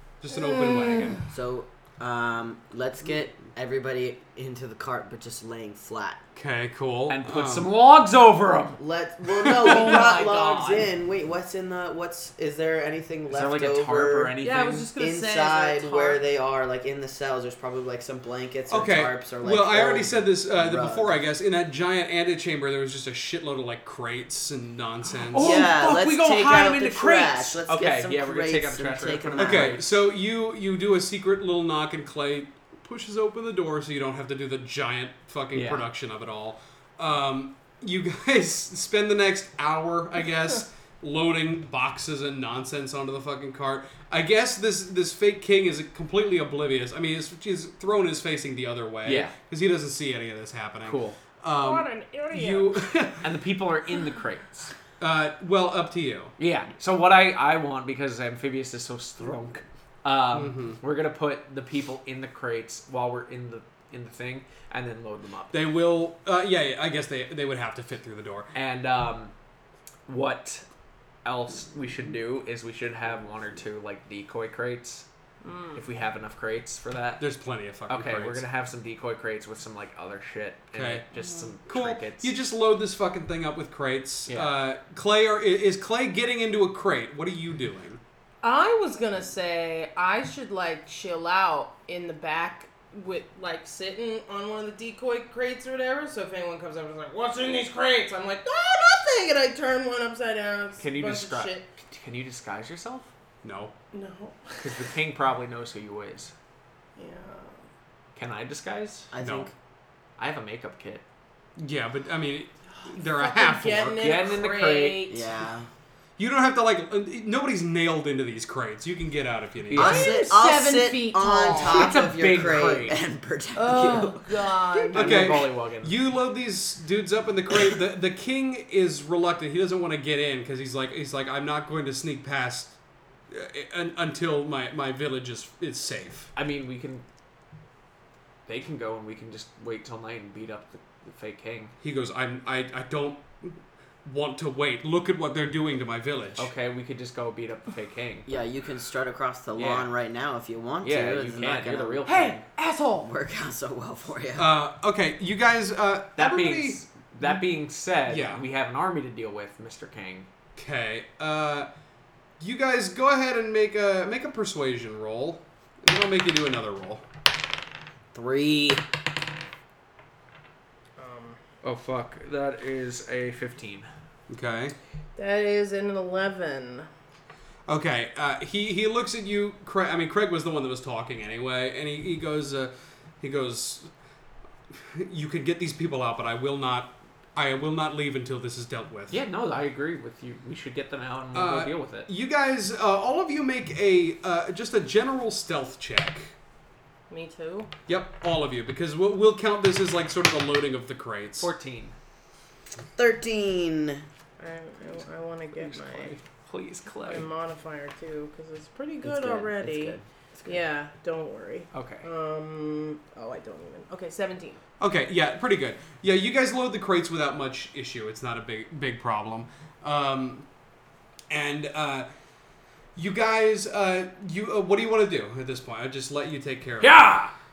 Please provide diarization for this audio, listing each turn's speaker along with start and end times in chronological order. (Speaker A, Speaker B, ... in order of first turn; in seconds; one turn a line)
Speaker A: 0.2-1.2
Speaker B: 0.4-1.1
Speaker C: 1.3-6.2
Speaker A: 6.3-7.7
Speaker D: 7.1-8.8
Speaker C: 8.8-14.3
Speaker D: 9.4-10.9
Speaker B: 9.6-10.2
Speaker D: 13.3-14.9
Speaker B: 14.4-16.2
Speaker C: 15.0-21.2
Speaker A: 18.7-25.6
Speaker D: 25.3-29.9
Speaker C: 25.4-29.8
Speaker A: 29.4-53.3
Speaker D: 35.5-35.8
Speaker D: 49.0-49.3
Speaker D: 50.8-51.2
Speaker B: 51.6-52.8
Speaker D: 53.2-54.7
Speaker A: 55.0-56.3
Speaker D: 56.4-65.5
Speaker A: 60.3-60.8
Speaker A: 65.5-68.5
Speaker D: 68.5-69.3
Speaker D: 70.1-70.6
Speaker D: 71.2-75.0
Speaker B: 75.4-75.8
Speaker D: 75.7-77.2
Speaker A: 77.2-78.4
Speaker D: 77.9-82.3
Speaker A: 80.7-81.0
Speaker A: 81.7-88.0
Speaker D: 84.3-84.5
Speaker B: 88.4-101.6
Speaker D: 100.8-103.1
Speaker A: 103.4-103.7
Speaker B: 103.9-104.8
Speaker D: 104.6-106.3
Speaker B: 107.0-107.6
Speaker D: 108.1-109.1
Speaker C: 109.1-109.5
Speaker A: 109.2-109.5
Speaker D: 110.2-111.0
Speaker A: 111.6-114.0
Speaker B: 113.0-115.2
Speaker D: 114.0-115.1
Speaker C: 115.1-115.7
Speaker A: 116.2-120.0
Speaker D: 119.7-120.3
Speaker C: 119.7-124.5
Speaker B: 119.8-122.0
Speaker D: 121.5-123.0
Speaker B: 123.5-125.3
Speaker D: 124.8-125.9
Speaker A: 124.9-132.8
Speaker A: 133.3-136.3
Speaker D: 136.3-137.0
Speaker D: 138.4-141.7
Speaker A: 141.8-146.5
Speaker D: 146.4-148.3
Speaker C: 148.2-152.4
Speaker D: 149.5-149.9
Speaker D: 150.8-152.4
Speaker B: 152.0-153.1
Speaker C: 153.0-154.5
Speaker A: 154.3-156.8
Speaker D: 156.2-160.3
Speaker A: 158.1-158.4
Speaker A: 160.6-161.7
Speaker A: 162.4-167.0
Speaker C: 168.1-168.8
Speaker B: 171.0-171.4
Speaker D: 171.6-173.9
Speaker A: 174.3-174.7
Speaker B: 175.2-176.9
Speaker A: 177.7-183.9
Speaker A: 184.9-189.2
Speaker D: 189.1-192.1
Speaker A: 191.3-196.3
Speaker B: 197.1-197.7
Speaker A: 197.9-201.5
Speaker D: 201.4-201.9
Speaker C: 202.9-204.0
Speaker B: 204.4-206.2
Speaker D: 205.5-207.3
Speaker B: 207.0-214.6
Speaker C: 209.0-210.6
Speaker D: 211.7-212.1
Speaker A: 214.8-220.5
Speaker A: 221.3-222.1
Speaker A: 222.9-227.0
Speaker D: 226.8-227.3